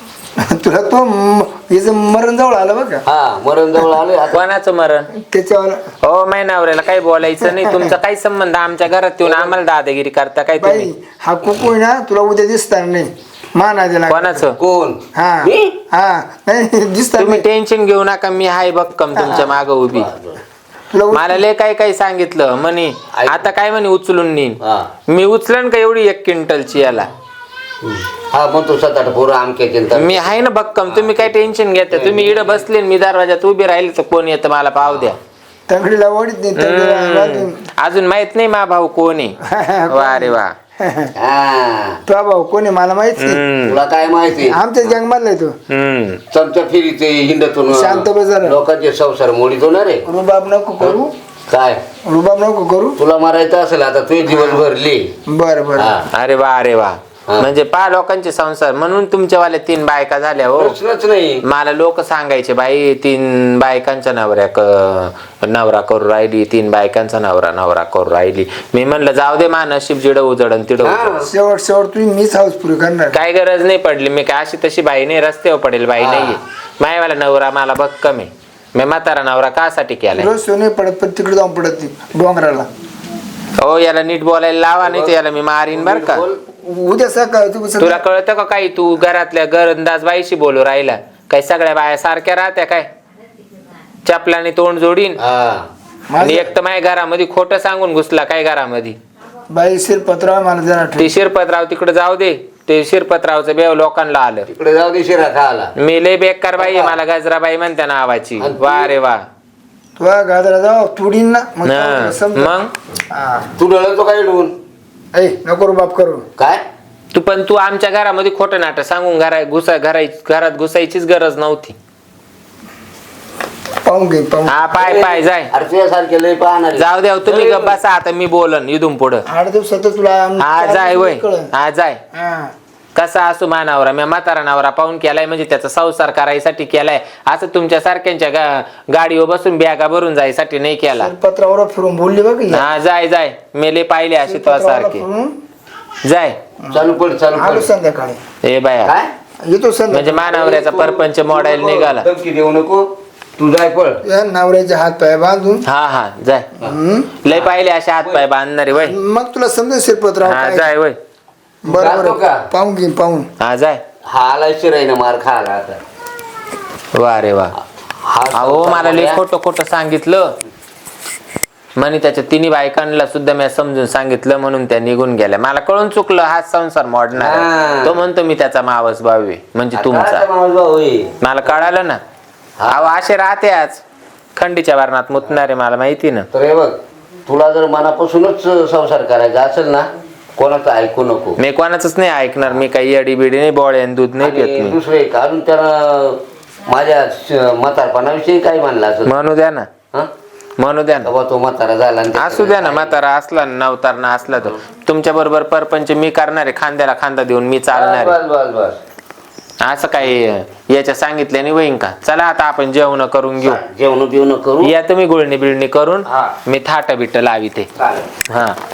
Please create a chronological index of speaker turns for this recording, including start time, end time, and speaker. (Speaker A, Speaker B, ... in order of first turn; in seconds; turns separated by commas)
Speaker A: 0.4-3.0, Speaker B: 3.1-4.4, Speaker C: 4.3-5.1, Speaker A: 5.2-5.8, Speaker C: 6.0-10.9, Speaker A: 7.4-8.0, Speaker A: 10.6-14.4, Speaker C: 14.1-14.6, Speaker B: 14.6-15.8, Speaker A: 15.1-17.4, Speaker C: 17.2-20.1, Speaker A: 19.1-19.5, Speaker B: 19.2-20.4, Speaker A: 20.9-21.4, Speaker C: 21.1-27.1, Speaker B: 23.1-23.4, Speaker B: 24.6-24.9, Speaker B: 27.8-30.3, Speaker C: 29.9-35.2, Speaker B: 30.9-31.3, Speaker B: 31.9-32.6, Speaker B: 34.8-35.1, Speaker A: 35.7-37.6, Speaker C: 36.6-39.4, Speaker A: 39.4-41.1, Speaker C: 39.9-40.5, Speaker B: 41.2-42.0, Speaker A: 42.0-43.4, Speaker C: 43.2-43.8, Speaker B: 43.6-44.9, Speaker A: 44.4-45.5, Speaker C: 45.7-46.2, Speaker B: 46.3-50.0, Speaker A: 47.7-48.6, Speaker A: 50.0-51.1, Speaker B: 50.8-51.8, Speaker A: 52.0-53.0, Speaker B: 53.0-55.1, Speaker A: 54.3-54.6, Speaker A: 55.3-56.0, Speaker B: 55.8-56.0, Speaker C: 56.1-60.8, Speaker B: 60.5-61.4, Speaker C: 61.4-71.1, Speaker B: 70.8-71.3, Speaker A: 71.2-73.2, Speaker C: 73.1-80.3, Speaker B: 76.0-76.4, Speaker A: 80.1-82.7, Speaker C: 83.6-86.2, Speaker B: 84.8-85.2, Speaker B: 85.7-86.4, Speaker A: 86.6-88.0, Speaker C: 87.8-92.9, Speaker C: 94.0-95.2, Speaker B: 95.2-95.7, Speaker A: 96.1-96.5, Speaker C: 96.2-99.0, Speaker A: 99.5-101.1, Speaker C: 101.0-104.5, Speaker B: 104.5-105.7, Speaker C: 105.8-109.2, Speaker B: 106.6-107.0, Speaker B: 108.4-108.9, Speaker A: 110.0-112.5, Speaker C: 111.7-112.7, Speaker A: 113.1-113.5, Speaker B: 113.6-114.5, Speaker A: 115.1-116.2, Speaker B: 116.4-116.6, Speaker C: 117.1-121.8, Speaker A: 123.8-124.6, Speaker C: 124.5-125.5, Speaker B: 124.8-127.8, Speaker C: 126.7-129.2, Speaker A: 129.3-131.5, Speaker C: 130.4-132.0, Speaker A: 132.1-132.5, Speaker C: 132.9-141.1, Speaker A: 140.9-142.7, Speaker C: 142.5-145.0, Speaker A: 144.2-145.3, Speaker C: 146.0-146.4, Speaker A: 146.6-148.2, Speaker B: 146.7-147.7, Speaker C: 148.4-148.9, Speaker B: 148.8-149.1, Speaker A: 149.4-150.4, Speaker C: 149.9-152.1, Speaker B: 150.3-154.0, Speaker A: 154.0-155.6, Speaker C: 155.6-156.5, Speaker A: 156.6-157.1, Speaker C: 157.2-158.9, Speaker B: 157.3-158.2, Speaker A: 158.7-160.7, Speaker C: 160.2-161.0, Speaker A: 161.6-163.3, Speaker B: 161.7-162.4, Speaker C: 163.4-163.8, Speaker B: 164.1-165.8, Speaker C: 166.9-167.5, Speaker B: 168.0-169.2, Speaker C: 168.3-170.3, Speaker C: 171.8-180.2, Speaker B: 177.1-178.0, Speaker B: 179.7-181.1, Speaker C: 181.2-182.0, Speaker B: 182.6-182.9, Speaker C: 182.7-183.8, Speaker C: 184.3-186.3, Speaker B: 186.3-191.4, Speaker C: 191.4-194.8, Speaker B: 194.2-199.1, Speaker C: 199.1-199.7, Speaker C: 200.6-201.1, Speaker B: 201.0-202.9, Speaker C: 202.1-208.2, Speaker B: 207.7-208.8, Speaker C: 209.6-213.6, Speaker B: 213.4-214.7, Speaker C: 214.6-217.7, Speaker B: 216.1-216.3, Speaker B: 217.8-218.2, Speaker C: 218.3-218.6